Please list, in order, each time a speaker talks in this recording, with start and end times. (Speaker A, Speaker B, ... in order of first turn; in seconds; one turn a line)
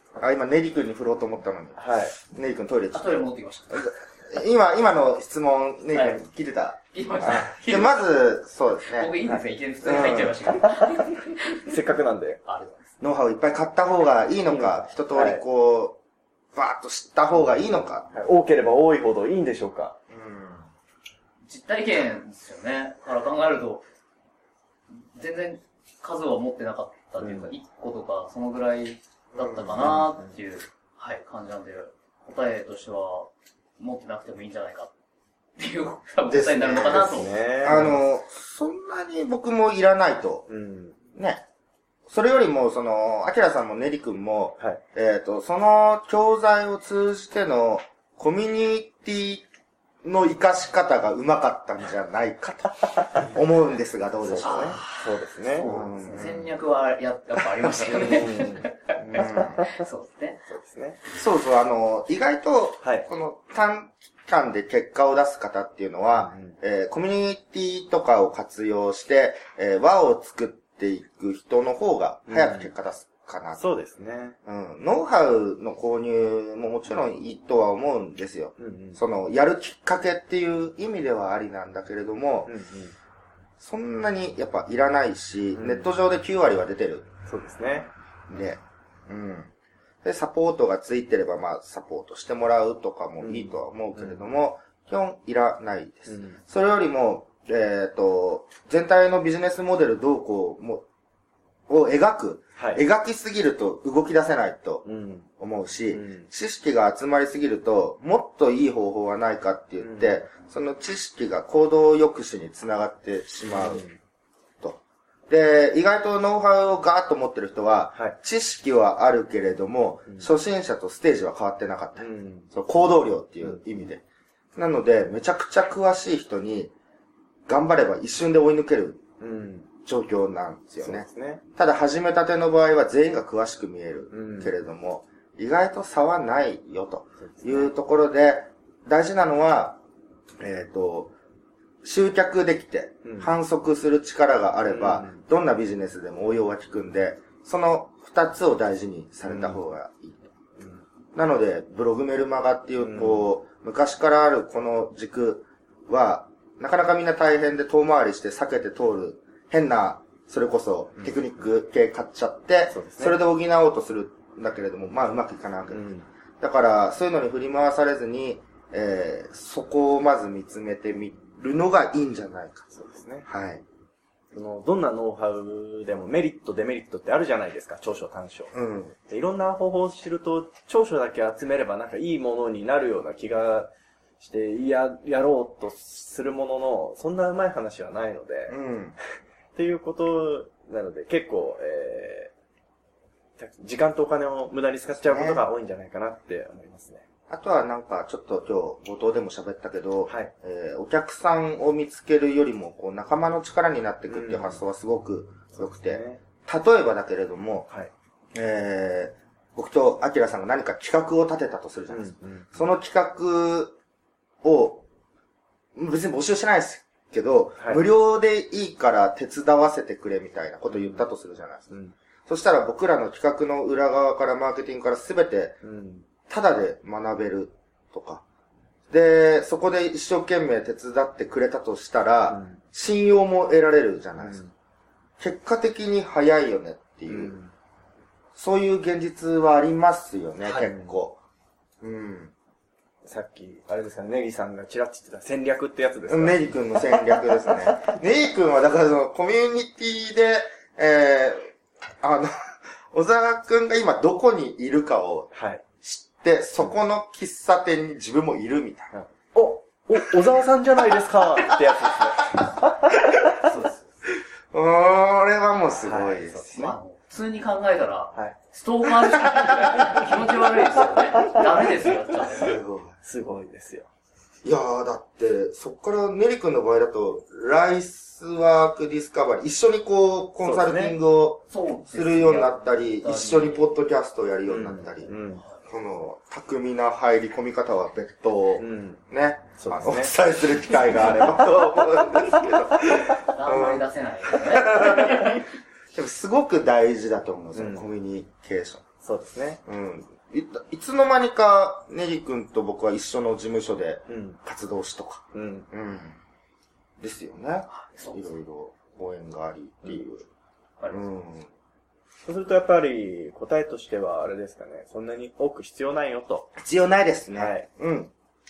Speaker A: 0.2-10.5
Speaker B: 1.8-2.1
Speaker C: 2.9-4.0
Speaker C: 5.9-6.2
Speaker C: 6.9-8.1
Speaker C: 8.8-11.8
Speaker B: 11.7-12.4
Speaker C: 12.4-12.9
Speaker A: 13.0-16.0
Speaker B: 14.4-15.4
Speaker A: 16.5-18.1
Speaker B: 18.1-20.0
Speaker A: 20.1-20.7
Speaker C: 21.4-23.8
Speaker C: 24.9-34.9
Speaker B: 27.2-27.5
Speaker A: 29.4-30.0
Speaker B: 29.8-30.4
Speaker C: 35.6-37.9
Speaker A: 36.3-40.5
Speaker B: 36.8-38.0
Speaker B: 40.5-41.0
Speaker A: 41.1-41.4
Speaker A: 42.1-49.5
Speaker A: 50.0-54.8
Speaker B: 53.0-53.3
Speaker B: 54.2-55.7
Speaker C: 54.4-60.4
Speaker A: 55.6-56.5
Speaker A: 57.6-58.1
Speaker B: 57.9-59.8
Speaker A: 59.1-59.6
Speaker B: 60.5-61.0
Speaker A: 61.1-73.6
Speaker B: 66.1-66.5
Speaker B: 72.3-72.7
Speaker B: 73.6-74.4
Speaker A: 74.4-82.5
Speaker B: 78.6-79.0
Speaker B: 82.5-82.9
Speaker A: 83.6-87.1
Speaker B: 85.5-85.9
Speaker B: 87.2-87.9
Speaker A: 88.3-89.5
Speaker A: 90.0-100.8
Speaker B: 93.2-94.2
Speaker B: 96.1-96.4
Speaker A: 101.7-104.8
Speaker B: 102.6-102.8
Speaker B: 104.8-105.3
Speaker A: 105.4-113.8
Speaker B: 105.9-106.3
Speaker B: 109.8-110.2
Speaker B: 113.5-114.0
Speaker A: 114.6-124.0
Speaker B: 122.0-122.5
Speaker A: 124.5-126.7
Speaker A: 127.5-129.0
Speaker B: 129.2-129.7
Speaker A: 129.8-139.8
Speaker B: 130.8-131.4
Speaker B: 134.1-134.5
Speaker B: 137.2-137.7
Speaker A: 140.4-141.1
Speaker A: 141.8-150.3
Speaker B: 143.0-143.3
Speaker B: 144.6-145.2
Speaker B: 149.2-149.6
Speaker A: 151.1-165.9
Speaker B: 152.8-153.3
Speaker B: 162.7-163.2
Speaker B: 165.7-166.1
Speaker A: 166.4-172.7
Speaker B: 172.7-173.2
Speaker A: 173.2-173.6
Speaker B: 174.3-178.5
Speaker A: 178.5-178.9
Speaker B: 179.1-188.6
Speaker A: 188.5-188.9
Speaker B: 189.5-192.3
Speaker B: 193.4-197.0
Speaker A: 195.0-195.4
Speaker A: 197.3-207.7
Speaker B: 204.1-204.6
Speaker B: 205.6-206.2
Speaker A: 208.3-213.7
Speaker B: 211.9-212.5
Speaker A: 214.4-214.8
Speaker A: 215.7-221.7
Speaker B: 217.6-217.8
Speaker B: 220.7-221.0
Speaker A: 222.3-225.6
Speaker B: 225.6-226.0
Speaker A: 226.3-228.2
Speaker A: 228.9-234.4
Speaker B: 232.3-232.6
Speaker B: 234.2-234.5
Speaker A: 235.2-237.4
Speaker B: 237.1-237.5
Speaker A: 238.3-241.2
Speaker B: 240.6-241.0
Speaker A: 241.8-242.3
Speaker B: 243.0-247.6
Speaker A: 246.1-251.5
Speaker A: 252.0-258.9
Speaker B: 255.3-255.6
Speaker B: 258.9-263.5
Speaker C: 263.4-263.9
Speaker A: 264.5-266.7
Speaker B: 265.8-266.8
Speaker C: 266.5-272.6
Speaker A: 269.0-270.0
Speaker B: 269.7-270.4
Speaker B: 271.1-271.9
Speaker A: 272.3-272.9
Speaker B: 273.0-273.9
Speaker A: 274.4-285.1
Speaker B: 280.4-281.0
Speaker C: 281.5-283.7
Speaker B: 284.5-285.4
Speaker C: 285.2-285.5
Speaker A: 285.6-298.9
Speaker B: 288.6-289.0
Speaker B: 289.6-290.1
Speaker C: 293.3-295.4
Speaker B: 297.5-297.9
Speaker B: 299.0-299.6
Speaker A: 299.6-306.2
Speaker B: 304.1-304.4
Speaker B: 305.3-305.6
Speaker A: 307.0-310.2
Speaker C: 307.7-308.2
Speaker A: 310.9-311.5
Speaker B: 312.2-316.5
Speaker A: 316.6-318.1
Speaker B: 317.3-317.7